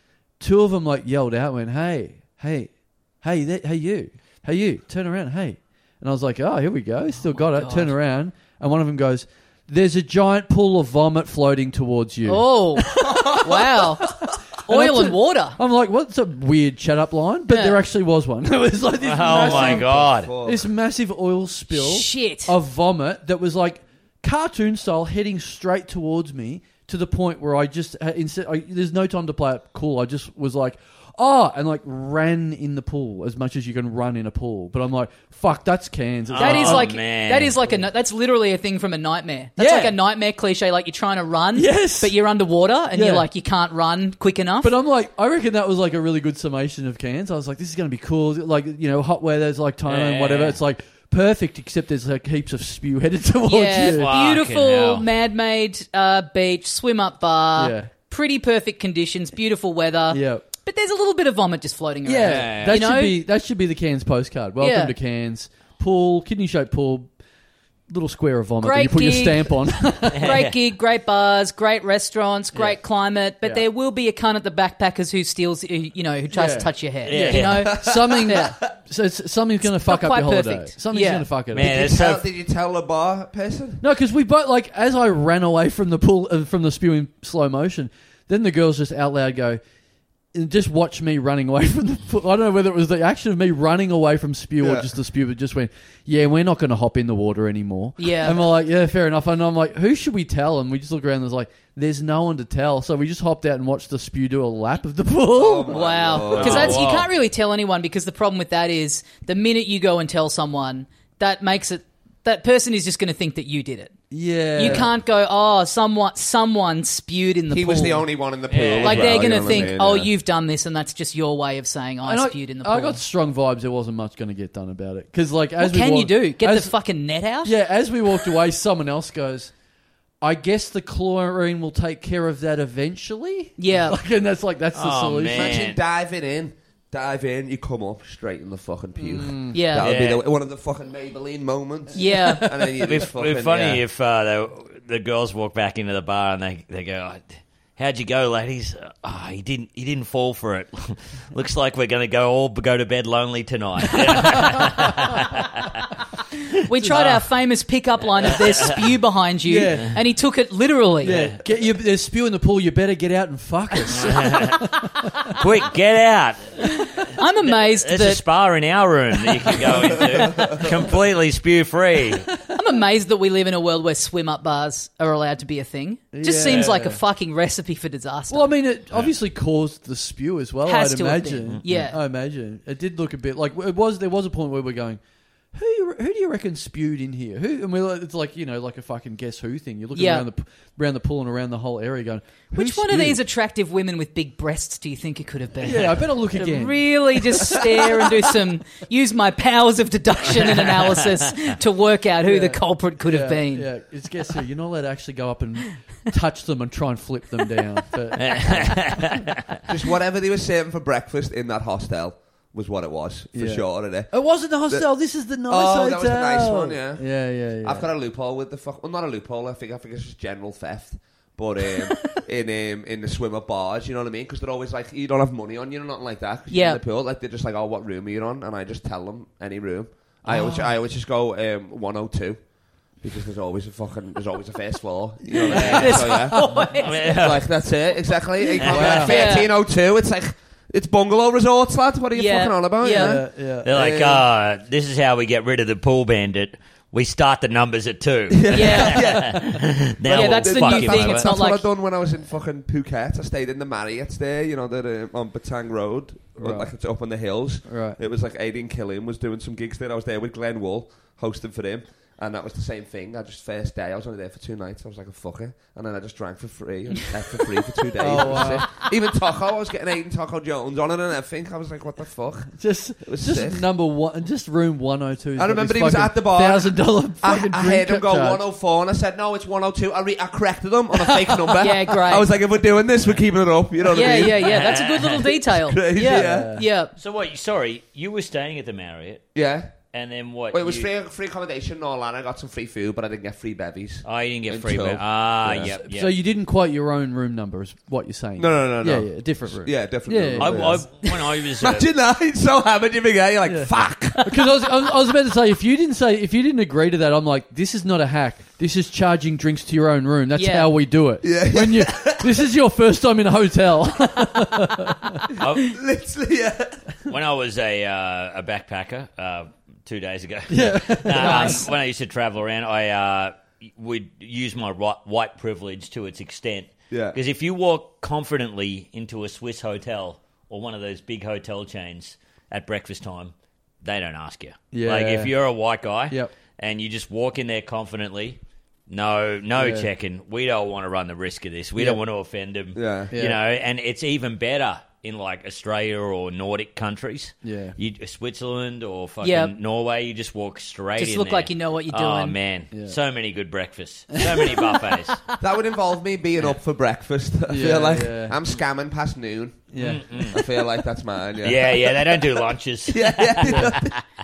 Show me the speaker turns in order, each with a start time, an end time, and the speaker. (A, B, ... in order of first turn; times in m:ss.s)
0:00.4-0:36.9 A
0:07.3-0:07.9 B
0:12.3-0:14.1 B
0:13.0-0:13.5 C
0:14.6-0:15.6 B
0:17.5-0:17.8 B
0:19.0-0:20.3 D
0:19.2-0:20.7 C
0:21.7-0:22.6 B
0:36.3-0:37.6 D
0:36.4-0:44.7 B
0:39.6-0:39.9 A
0:41.6-0:42.1 A
0:42.9-0:43.3 A
0:44.6-0:54.1 A
0:49.9-0:50.6 D
0:53.5-1:03.2 B
0:53.9-0:55.1 D
0:57.6-0:57.9 A
1:00.1-1:00.4 A
1:02.0-1:07.1 A
1:02.2-1:02.8 D
1:04.6-1:04.9 B
1:07.9-1:10.4 A
1:08.6-1:18.6 B
1:10.1-1:10.5 D
1:16.3-1:21.8 A
1:17.1-1:17.8 D
1:17.7-1:18.4 C
1:19.6-1:21.3 B
1:21.5-1:22.3 D
1:21.6-1:23.8 C
1:23.8-1:29.6 A
1:30.3-1:46.7 A
1:34.6-1:34.9 C
1:38.0-1:38.4 B
1:45.4-1:46.8 C
1:45.7-1:54.0 B
1:46.3-1:47.1 D
1:54.1-1:54.9 A
1:54.5-1:58.1 B
1:57.5-2:00.1 C
1:58.5-1:59.6 D
1:58.8-2:03.0 B
2:02.0-2:06.7 A
2:05.6-2:07.5 B
2:07.4-2:09.5 A
2:10.2-2:15.6 A
2:13.6-2:14.0 B
2:14.7-2:15.8 D
2:15.3-2:23.8 C
2:19.0-2:19.6 A
2:19.5-2:19.9 B
2:19.8-2:20.2 D
2:21.9-2:22.5 B
2:22.8-2:35.7 D
2:34.2-2:34.7 A
2:36.6-2:41.2 B
2:36.9-2:37.3 D
2:38.2-2:38.9 D
2:39.5-2:40.0 A
2:41.0-2:45.3 A
2:41.0-2:41.4 D
2:43.9-2:44.7 D
2:45.3-2:46.7 D
2:46.8-2:48.2 B
2:47.4-2:52.3 D
2:50.1-2:50.7 A
2:50.3-2:50.6 C
2:52.5-2:58.5 B
2:56.1-2:57.0 A
2:58.3-3:05.0 A
3:00.6-3:02.0 B
3:01.5-3:01.9 D
3:05.5-3:13.2 A
3:10.0-3:10.3 B
3:12.5-3:23.7 B
3:15.6-3:18.1 A
3:22.2-3:29.2 A
3:28.2-3:29.6 D
3:29.7-3:34.9 C
3:33.3-3:37.9 A
3:35.4-3:52.4 C
3:46.5-3:46.8 B
3:50.2-3:50.7 A
3:53.0-4:04.2 C
3:55.3-3:56.2 A
3:55.4-3:57.2 B
3:55.5-3:57.5 D
3:58.6-3:59.2 D
3:58.6-3:59.2 A
3:58.9-3:59.5 B
4:02.1-4:03.2 B
4:02.9-4:03.7 A
4:03.6-4:11.3 D
4:08.3-4:33.6 C
4:08.5-4:09.2 B
4:10.1-4:11.7 B
4:16.4-4:16.7 A
4:17.6-4:18.0 A
4:28.0-4:28.7 A
4:32.5-4:38.4 A
4:35.4-4:44.6 C
4:40.9-4:41.4 A
4:41.6-4:42.3 B
4:43.9-4:46.9 B
4:44.0-4:45.4 D
4:45.5-4:46.5 C
4:46.0-4:46.7 A
4:47.0-4:49.3 D
4:49.4-4:49.7 C
4:49.9-4:50.9 D
4:50.5-4:55.7 C
4:54.0-4:56.1 D
4:55.6-5:00.8 A
4:58.4-5:04.2 C
5:00.4-5:01.9 D
5:03.5-5:15.2 A
5:10.4-5:10.7 B
5:11.2-5:12.3 C
5:15.4-5:15.8 D
5:15.7-5:16.8 C
5:17.1-5:55.2 D
5:20.5-5:21.7 A
5:21.2-5:21.7 B
5:26.9-5:27.2 C
5:34.7-5:35.3 A
5:39.6-5:39.9 A
5:42.8-5:43.1 C
5:43.1-5:43.4 A
5:47.4-5:47.8 A
5:49.2-5:49.5 B
5:51.0-5:52.4 B
5:52.7-5:53.0 A
5:55.4-6:02.2 C
5:57.5-5:58.4 A
5:59.7-6:00.1 A
5:59.8-6:00.4 D
6:01.4-6:04.0 D
6:02.9-6:04.0 C
6:03.4-6:03.7 A